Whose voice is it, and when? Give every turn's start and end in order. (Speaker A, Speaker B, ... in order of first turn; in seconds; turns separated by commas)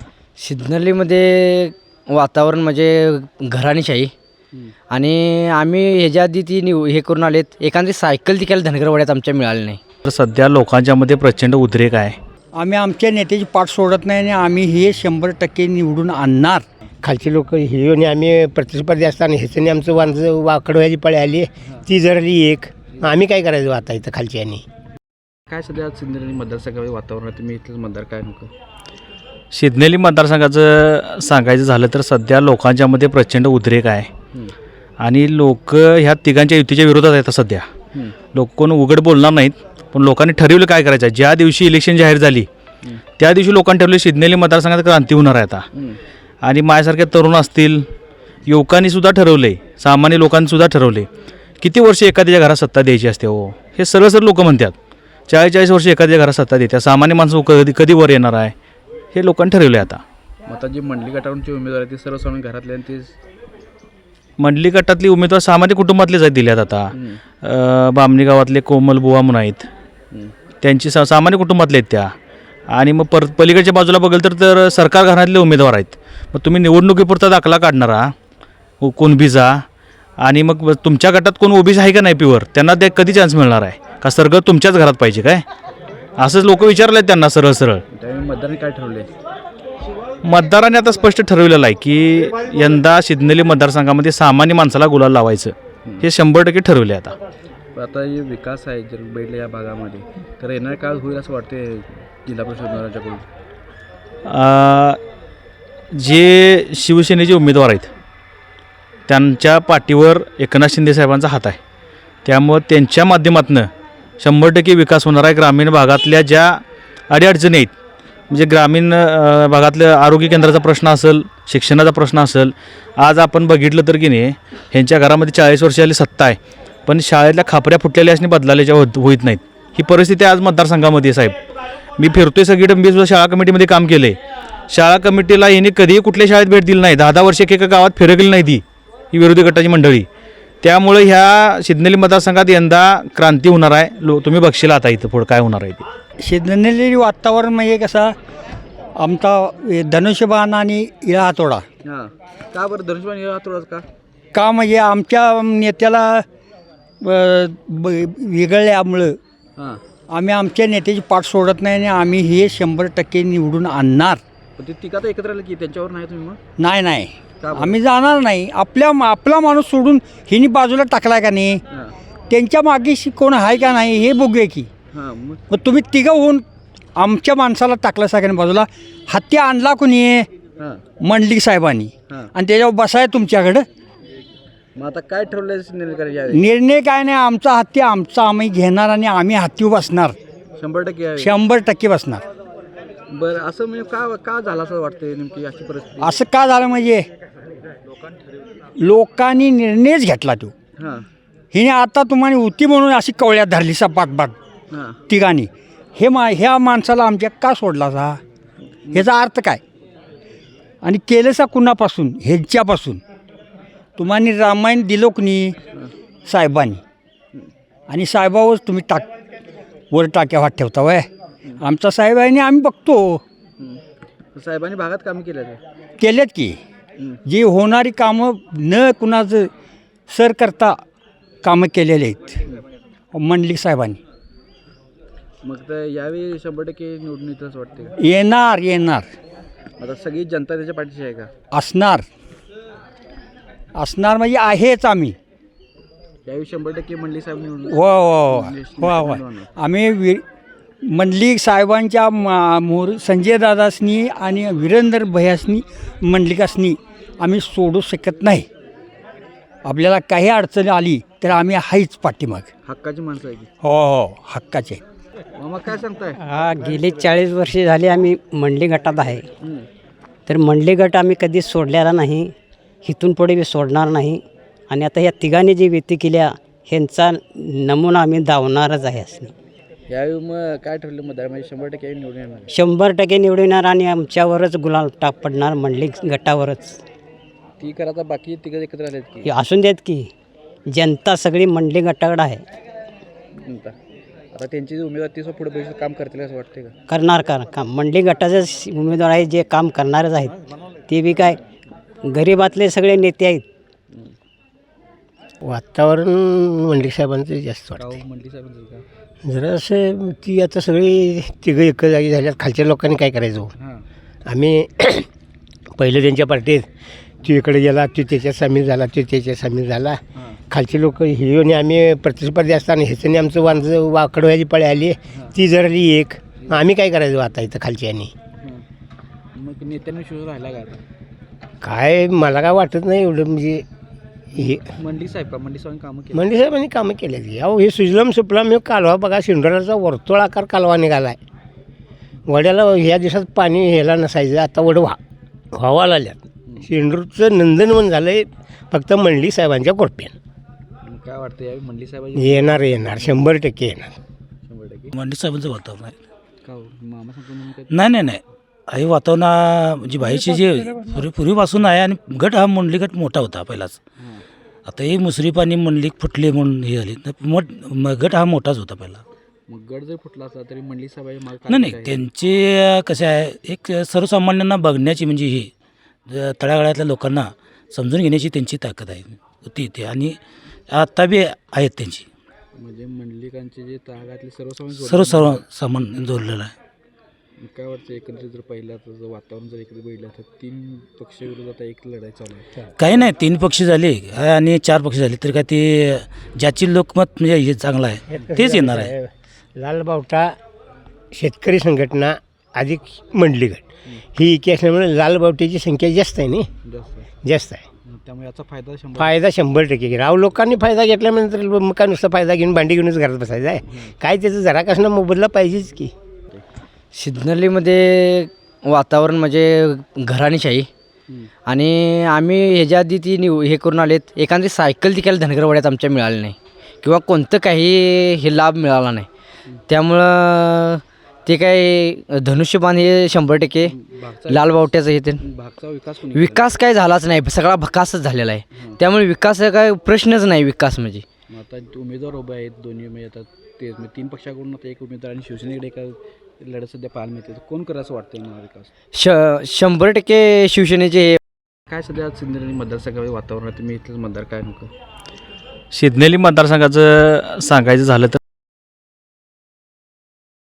Speaker A: 0.4-4.1, Speaker A: 4.9-9.8, Speaker B: 10.0-12.2, Speaker C: 12.6-16.6, Speaker D: 17.0-24.6, Speaker E: 25.5-28.5, Speaker B: 29.5-34.1, Speaker B: 35.0-37.7, Speaker B: 38.3-42.5, Speaker B: 43.2-45.6, Speaker E: 45.7-46.0, Speaker B: 46.4-47.9, Speaker B: 48.5-51.1, Speaker B: 51.6-54.7, Speaker B: 55.3-58.5, Speaker B: 59.1-60.0, Speaker E: 60.5-63.2, Speaker B: 64.4-69.7, Speaker E: 66.9-67.2, Speaker B: 70.6-72.1, Speaker B: 72.7-78.1, Speaker B: 78.8-79.6, Speaker B: 80.2-85.4, Speaker B: 86.2-87.8, Speaker E: 87.9-89.1, Speaker B: 90.2-97.1, Speaker E: 97.7-103.2, Speaker B: 104.2-105.0, Speaker B: 105.9-107.9, Speaker B: 109.1-111.6, Speaker B: 112.2-117.7, Speaker B: 118.3-131.4, Speaker B: 132.0-134.2, Speaker B: 134.7-140.1, Speaker B: 140.6-145.8, Speaker C: 146.2-148.1, Speaker C: 149.0-151.6, Speaker E: 151.8-153.8, Speaker C: 154.3-156.2, Speaker C: 157.0-159.2, Speaker C: 160.1-164.2, Speaker E: 164.6-166.4, Speaker C: 166.6-171.6, Speaker E: 167.4-167.8, Speaker E: 171.7-171.9, Speaker C: 172.3-174.7, Speaker E: 174.9-175.4, Speaker C: 175.5-176.4, Speaker C: 177.0-180.3, Speaker E: 180.6-180.8, Speaker C: 181.0-183.7, Speaker E: 184.7-186.4, Speaker C: 186.3-190.1, Speaker E: 190.6-191.4, Speaker C: 191.2-192.2, Speaker E: 193.1-196.1, Speaker C: 196.0-197.1, Speaker C: 198.8-200.5, Speaker E: 200.8-201.1, Speaker C: 201.5-204.3, Speaker E: 204.7-205.0, Speaker C: 205.1-208.2, Speaker C: 208.9-209.6, Speaker C: 210.8-213.0, Speaker C: 214.0-215.5, Speaker C: 216.3-216.8, Speaker C: 217.9-219.1, Speaker C: 219.9-221.1, Speaker C: 221.6-223.2, Speaker E: 224.3-225.6, Speaker C: 226.0-226.6, Speaker C: 227.2-229.5, Speaker C: 230.1-230.8, Speaker C: 231.4-232.4, Speaker C: 233.1-234.0, Speaker E: 235.4-237.9, Speaker C: 238.0-239.1, Speaker E: 239.8-241.3, Speaker C: 241.5-242.0, Speaker C: 243.8-245.2, Speaker E: 246.2-247.8, Speaker C: 247.7-250.2, Speaker E: 248.3-249.5, Speaker C: 250.8-258.5, Speaker C: 259.6-262.5, Speaker E: 262.6-263.5, Speaker C: 263.6-264.8, Speaker E: 265.4-266.2, Speaker F: 266.2-269.2, Speaker E: 269.4-269.7, Speaker F: 270.3-272.3, Speaker F: 272.8-279.3, Speaker E: 279.9-282.5, Speaker F: 282.5-286.8, Speaker E: 287.6-289.2, Speaker F: 289.2-290.1, Speaker F: 290.7-292.4, Speaker E: 293.4-293.7, Speaker E: 294.3-296.7, Speaker F: 296.9-300.4, Speaker F: 300.9-301.4, Speaker F: 302.1-303.4, Speaker D: 305.4-307.9, Speaker E: 307.8-308.8, Speaker D: 309.2-313.5, Speaker E: 313.6-313.8, Speaker D: 314.3-315.1, Speaker D: 315.8-316.7, Speaker D: 317.2-328.1, Speaker E: 329.3-330.8, Speaker D: 331.6-333.6, Speaker D: 334.3-334.6, Speaker E: 334.7-336.3, Speaker D: 336.1-341.2, Speaker D: 342.3-345.0, Speaker D: 345.5-350.1, Speaker E: 350.8-353.3, Speaker D: 352.1-353.9, Speaker E: 354.4-354.9, Speaker G: 354.9-356.0, Speaker E: 356.4-357.8, Speaker G: 357.7-363.8, Speaker E: 364.0-364.2, Speaker G: 364.6-369.0, Speaker E: 369.5-372.0, Speaker G: 371.5-375.5, Speaker G: 376.1-380.2, Speaker G: 380.7-382.1, Speaker E: 382.6-385.4, Speaker G: 384.8-386.5, Speaker E: 387.4-392.5, Speaker G: 392.8-398.9, Speaker D: 398.1-400.3, Speaker D: 401.1-406.5, Speaker E: 406.6-407.1, Speaker D: 407.2-407.6, Speaker E: 407.9-409.2, Speaker D: 409.0-415.9, Speaker A: 416.9-420.7, Speaker A: 421.4-429.1, Speaker A: 429.7-433.7, Speaker E: 433.6-436.5, Speaker A: 434.3-435.2, Speaker A: 436.1-441.0, Speaker E: 438.5-438.8, Speaker E: 441.3-448.7, Speaker A: 448.9-451.2, Speaker E: 451.7-454.7, Speaker B: 455.7-458.2